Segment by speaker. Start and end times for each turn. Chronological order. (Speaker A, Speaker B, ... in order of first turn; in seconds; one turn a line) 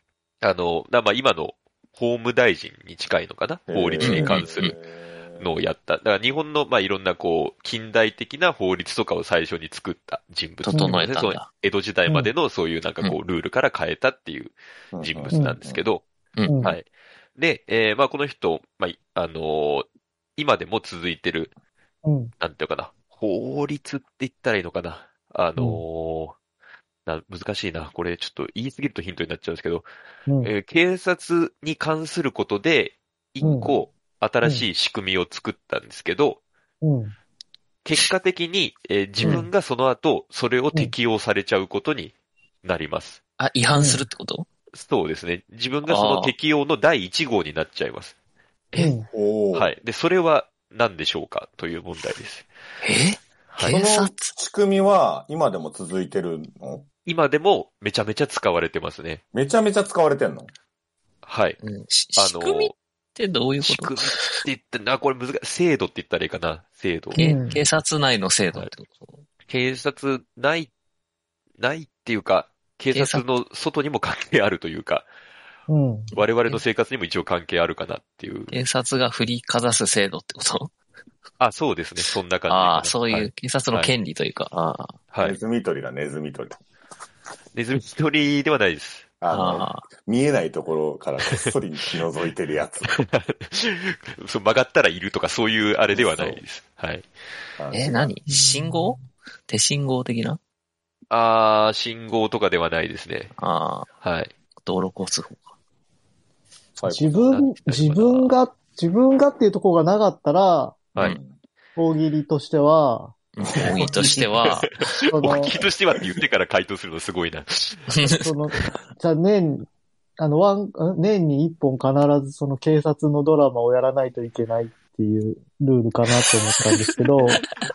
Speaker A: 0.4-4.8
Speaker B: 3.7-5.5
Speaker C: 4.0-4.7
Speaker A: 5.3-16.0
Speaker C: 10.6-11.5
Speaker D: 10.7-11.0
Speaker B: 14.9-15.8
Speaker C: 16.3-16.7
Speaker D: 16.4-16.8
Speaker A: 16.6-19.9
Speaker A: 20.4-21.5
Speaker D: 22.0-22.3
Speaker A: 22.4-26.4
Speaker D: 25.6-25.8
Speaker A: 27.1-29.9
Speaker A: 30.4-36.4
Speaker D: 33.4-33.7
Speaker B: 33.4-33.7
Speaker D: 36.8-37.1
Speaker A: 37.8-43.2
Speaker C: 39.2-39.5
Speaker C: 43.4-44.5
Speaker D: 43.8-44.0
Speaker A: 44.7-48.1
Speaker C: 45.9-46.3
Speaker D: 48.8-49.1
Speaker B: 49.1-49.7
Speaker A: 49.5-52.5
Speaker C: 52.8-54.3
Speaker A: 53.5-53.8
Speaker B: 53.6-56.9
Speaker A: 57.0-59.2
Speaker B: 59.3-60.5
Speaker A: 61.2-61.6
Speaker C: 61.6-64.4
Speaker A: 62.2-62.7
Speaker A: 63.6-67.3
Speaker C: 67.1-69.2
Speaker D: 67.2-67.6
Speaker A: 69.5-70.7
Speaker A: 71.6-75.0
Speaker C: 72.9-73.2
Speaker D: 75.7-76.1
Speaker A: 76.1-78.6
Speaker C: 78.5-80.7
Speaker A: 81.4-83.9
Speaker C: 82.5-85.0
Speaker A: 85.1-85.4
Speaker B: 85.2-86.6
Speaker A: 87.5-89.0
Speaker B: 89.2-92.9
Speaker C: 89.3-89.8
Speaker A: 92.9-97.1
Speaker B: 95.9-96.4
Speaker B: 97.6-98.2
Speaker C: 97.7-100.4
Speaker D: 98.3-98.9
Speaker A: 101.1-103.3
Speaker C: 103.4-103.9
Speaker A: 104.0-104.3
Speaker C: 104.6-105.5
Speaker B: 106.8-107.4
Speaker D: 106.9-110.9
Speaker A: 107.2-108.3
Speaker B: 111.0-111.3
Speaker D: 111.8-113.1
Speaker C: 113.3-114.8
Speaker B: 113.4-114.3
Speaker A: 114.8-118.0
Speaker D: 115.1-115.6
Speaker C: 117.9-118.2
Speaker D: 118.2-119.7
Speaker D: 120.2-127.4